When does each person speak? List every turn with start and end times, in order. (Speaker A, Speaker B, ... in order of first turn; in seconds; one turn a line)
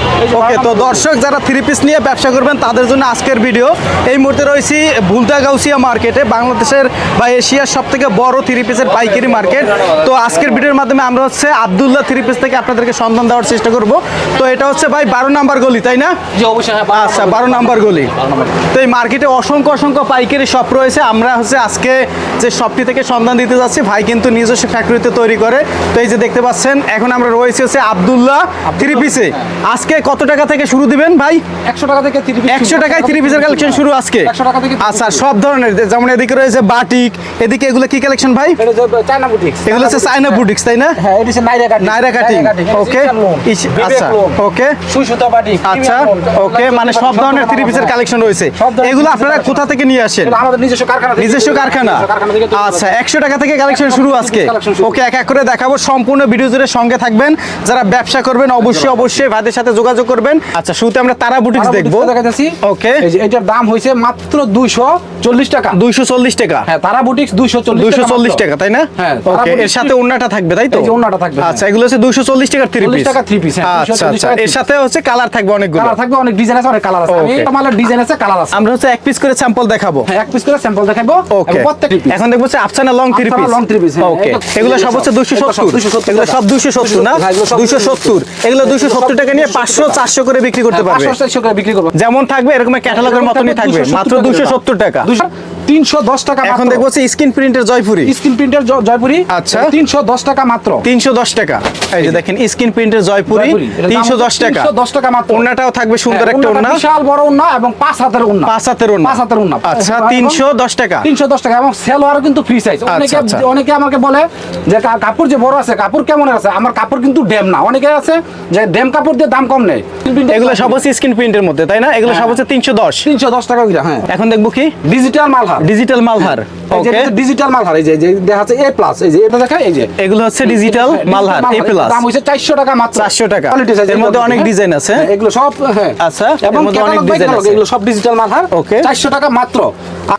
Speaker A: 0.2-1.0
Speaker B: 0.3-16.1
Speaker A: 8.9-9.9
Speaker A: 16.3-18.6
Speaker B: 16.9-31.4
Speaker A: 28.6-29.5
Speaker A: 31.7-35.2
Speaker B: 32.5-38.6
Speaker A: 38.6-48.0
Speaker B: 39.6-41.0
Speaker B: 41.8-44.8
Speaker B: 45.6-50.4
Speaker A: 48.5-52.9
Speaker B: 51.2-63.0
Speaker A: 53.7-55.0
Speaker A: 58.6-59.2
Speaker A: 61.5-65.8
Speaker B: 65.7-66.7
Speaker A: 66.7-68.4
Speaker B: 67.7-76.0
Speaker A: 69.0-69.9
Speaker A: 70.7-71.6
Speaker A: 72.8-74.6
Speaker A: 75.7-78.6
Speaker B: 77.1-77.5
Speaker B: 78.5-80.1
Speaker A: 80.1-82.2
Speaker B: 81.3-91.2
Speaker A: 83.1-90.0
Speaker A: 90.7-91.9
Speaker B: 91.9-95.1
Speaker A: 92.8-96.8
Speaker B: 96.4-98.1
Speaker A: 98.0-100.8
Speaker B: 99.3-99.7
Speaker B: 100.8-104.7
Speaker A: 103.3-105.5
Speaker B: 105.3-106.8
Speaker A: 106.1-110.4
Speaker B: 108.5-111.1
Speaker A: 111.0-120.8
Speaker B: 112.9-113.4
Speaker B: 120.3-123.1
Speaker A: 122.0-122.4
Speaker A: 123.0-124.1
Speaker B: 124.1-124.7
Speaker A: 124.8-129.9
Speaker B: 125.6-127.1
Speaker B: 130.0-132.0
Speaker A: 130.4-139.7
Speaker B: 132.9-135.1
Speaker B: 136.0-137.6
Speaker B: 138.5-138.9